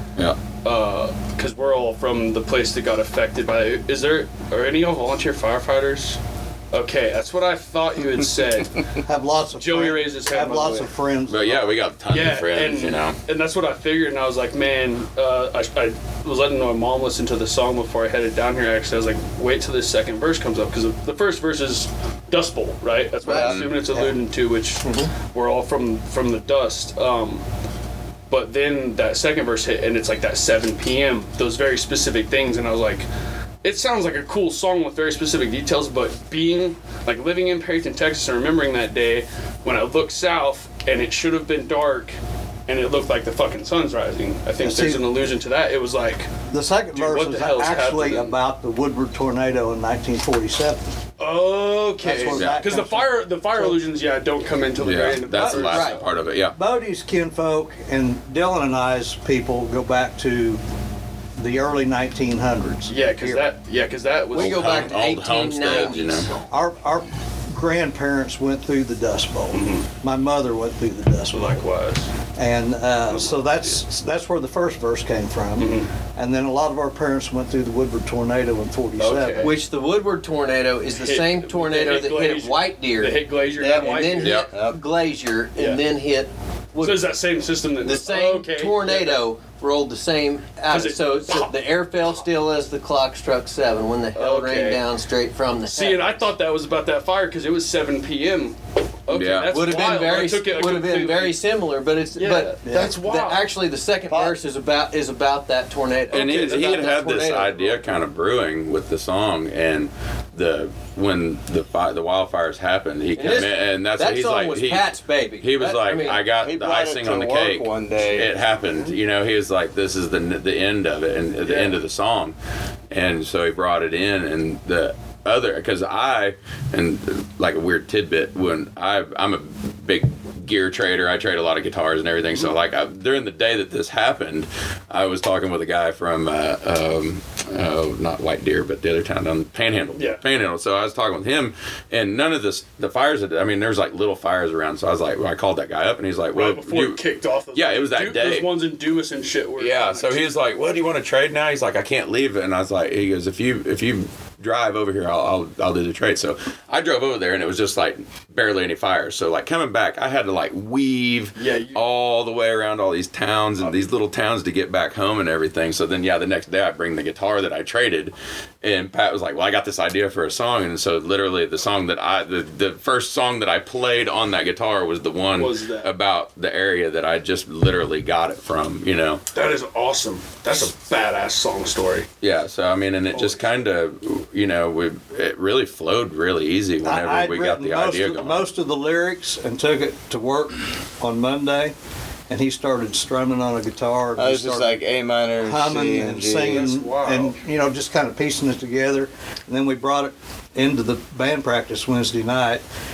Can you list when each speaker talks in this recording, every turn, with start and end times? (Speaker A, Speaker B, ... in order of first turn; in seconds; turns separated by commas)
Speaker A: 0.6-6.2, Speaker A: 6.7-8.8, Speaker B: 9.1-11.7, Speaker A: 9.6-10.9, Speaker C: 11.3-13.2, Speaker A: 12.1-27.4, Speaker D: 23.3-24.1, Speaker E: 23.3-23.6, Speaker C: 23.4-23.8, Speaker D: 24.8-25.1, Speaker A: 28.3-33.1, Speaker A: 33.6-42.2, Speaker A: 42.7-46.3, Speaker B: 44.6-45.0, Speaker B: 46.5-50.8, Speaker A: 46.9-48.4, Speaker A: 51.2-56.1, Speaker B: 52.0-53.8, Speaker C: 52.3-52.6, Speaker C: 54.8-56.6, Speaker D: 55.5-56.0, Speaker B: 56.5-60.6, Speaker B: 61.4-63.5, Speaker A: 62.9-65.0, Speaker D: 64.3-66.3, Speaker C: 64.3-66.3, Speaker B: 66.5-71.6, Speaker A: 69.5-69.9, Speaker A: 71.3-72.1, Speaker B: 72.4-79.5, Speaker A: 73.1-73.8, Speaker A: 75.6-75.9, Speaker A: 79.0-79.5, Speaker D: 79.4-87.1, Speaker A: 80.9-84.5, Speaker E: 83.6-84.8, Speaker C: 84.2-84.5, Speaker A: 85.6-85.8, Speaker A: 86.8-89.2, Speaker D: 87.8-96.2, Speaker A: 90.7-91.5, Speaker A: 94.1-94.8, Speaker A: 95.7-98.6, Speaker A: 99.1-101.4, Speaker C: 99.1-99.7, Speaker D: 99.5-107.8, Speaker A: 102.1-103.5, Speaker E: 104.1-104.4, Speaker C: 106.1-122.4, Speaker A: 106.1-106.8, Speaker D: 113.1-116.2, Speaker E: 116.4-118.3, Speaker A: 121.5-121.7, Speaker C: 122.9-147.0, Speaker A: 139.9-140.2, Speaker A: 146.3-150.4, Speaker C: 147.5-148.5, Speaker C: 149.6-179.2, Speaker A: 161.4-161.8, Speaker A: 175.3-175.9, Speaker A: 179.3-182.1, Speaker C: 182.2-188.5, Speaker A: 183.1-183.6, Speaker B: 186.8-191.7, Speaker B: 192.3-194.8, Speaker E: 194.2-196.7, Speaker B: 195.4-202.6, Speaker A: 196.4-197.4